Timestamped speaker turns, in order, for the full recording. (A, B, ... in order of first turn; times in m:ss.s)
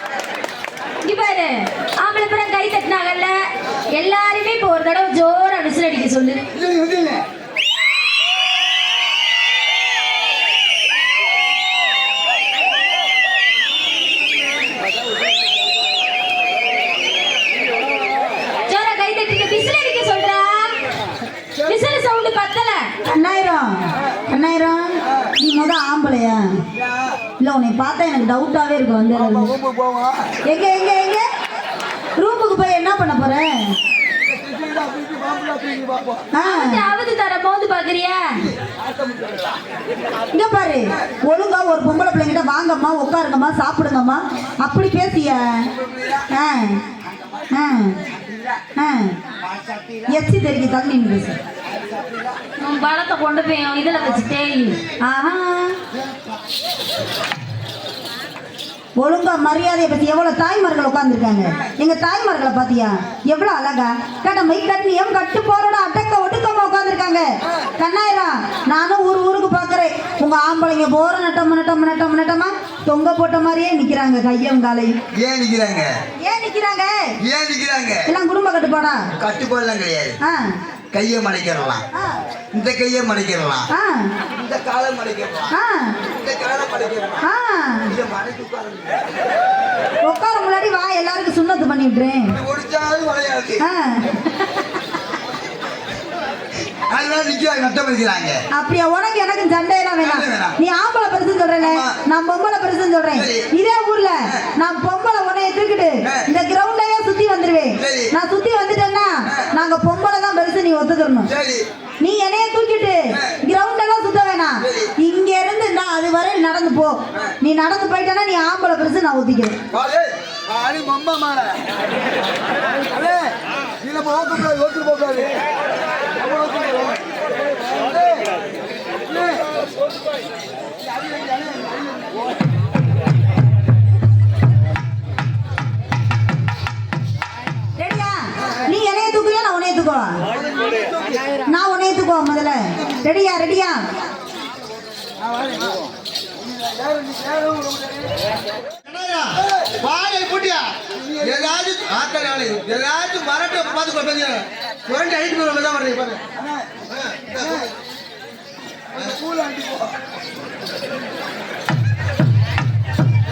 0:01.0-0:06.4 A
0:06.5-0:07.2 B
0:18.7-0:20.8 A
0:21.6-0:23.0 A
0:23.0-0:26.5 C
0:26.8-0:27.2 B
0:27.4-0:29.5 C
0:29.1-0:30.4 B
0:30.5-0:31.2 C
0:32.2-0:33.8 C
0:34.3-0:36.3 B
0:36.3-0:36.8 C
0:36.4-0:38.5 A
0:38.4-0:39.6 B
0:40.3-0:45.7 C
0:45.8-0:46.3 B
0:46.3-0:46.8 C
0:47.5-0:48.0 C
0:48.8-0:49.2 C
0:49.5-0:50.1 B
0:50.1-0:51.4 C
0:51.8-0:52.3 B
0:52.6-0:54.8 A
0:55.0-0:55.8 C
0:59.0-1:15.0 C
1:15.2-1:15.9 B
1:16.2-1:17.2 C
1:17.2-1:18.1 B
1:18.1-1:19.0 C
1:19.2-1:20.2 B
1:20.2-1:20.6 C
1:20.9-1:21.8 B
1:22.5-1:23.7 B
1:23.7-1:24.2 C
1:24.3-1:25.5 B
1:25.5-1:26.0 C
1:26.1-1:27.2 B
1:27.2-1:27.9 C
1:27.9-1:29.0 B
1:30.0-1:32.4 C
1:32.3-1:33.6 B
1:33.6-1:34.2 C
1:36.9-1:38.4 B
1:38.5-1:51.3 C
1:40.0-1:40.6 B
1:41.6-1:42.0 B
1:43.1-1:43.5 B
1:46.0-1:46.3 B
1:47.8-1:48.1 B
1:51.3-1:51.6 B
1:52.0-1:59.6 C
1:53.1-1:53.4 B
1:54.6-1:54.9 B
1:59.7-2:01.6 B
2:02.9-2:03.3 B
2:03.8-2:05.3 B
2:06.2-2:07.0 B
2:07.7-2:08.2 B
2:09.1-2:09.4 B
2:11.1-2:11.8 B
2:17.8-2:20.2 C
2:20.4-2:21.2 B
2:21.5-2:23.8 C
2:26.4-2:28.2 B
2:28.9-2:37.7 B
2:38.9-2:40.0 B